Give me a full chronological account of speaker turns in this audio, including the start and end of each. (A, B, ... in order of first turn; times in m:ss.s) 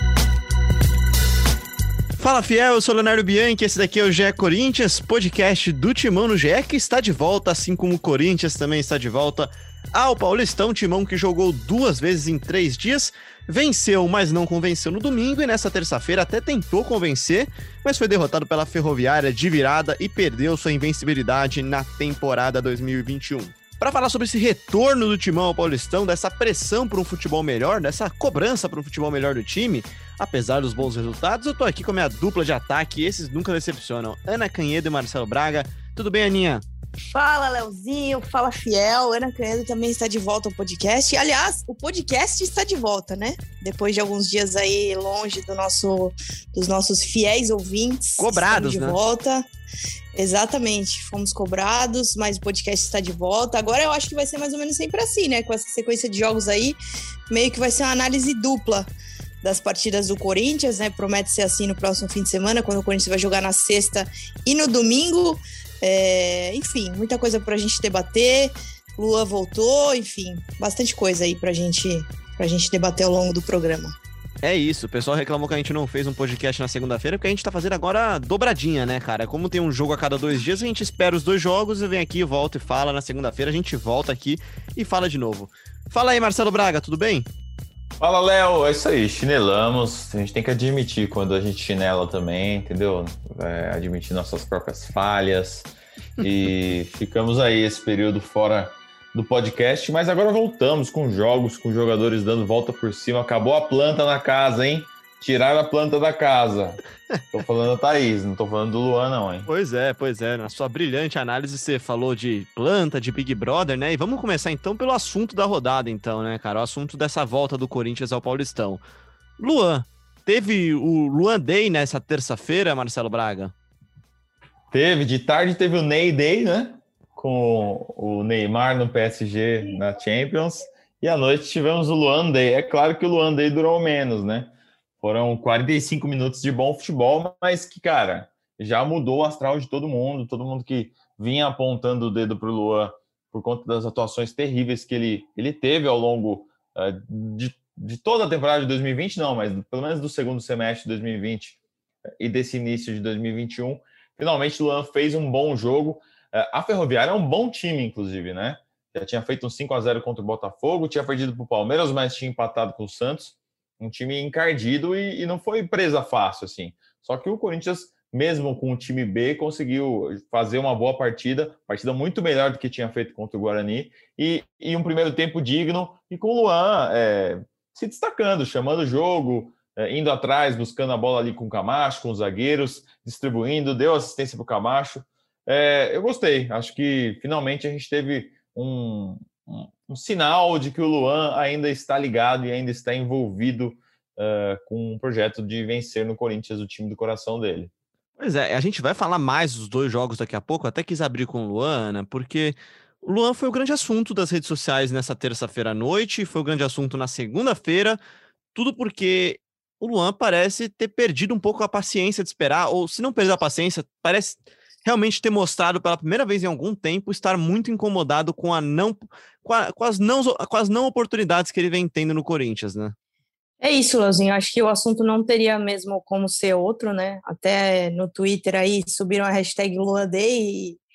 0:02.2-0:36.6 A
0:37.1-0:49.4 B
0:48.2-0:49.0 A
0:50.1-0:56.8 B
0:57.3-0:58.9 B
0:59.4-1:14.0 B
1:14.4-1:27.3 A
1:28.0-1:46.8 C
1:47.3-1:49.5 C
1:49.5-1:58.8 A
1:59.4-2:03.5 A
2:04.7-2:31.6 C
2:32.2-3:17.7 C
3:18.2-3:28.0 A
3:28.5-3:42.9 A
3:43.6-3:50.8 B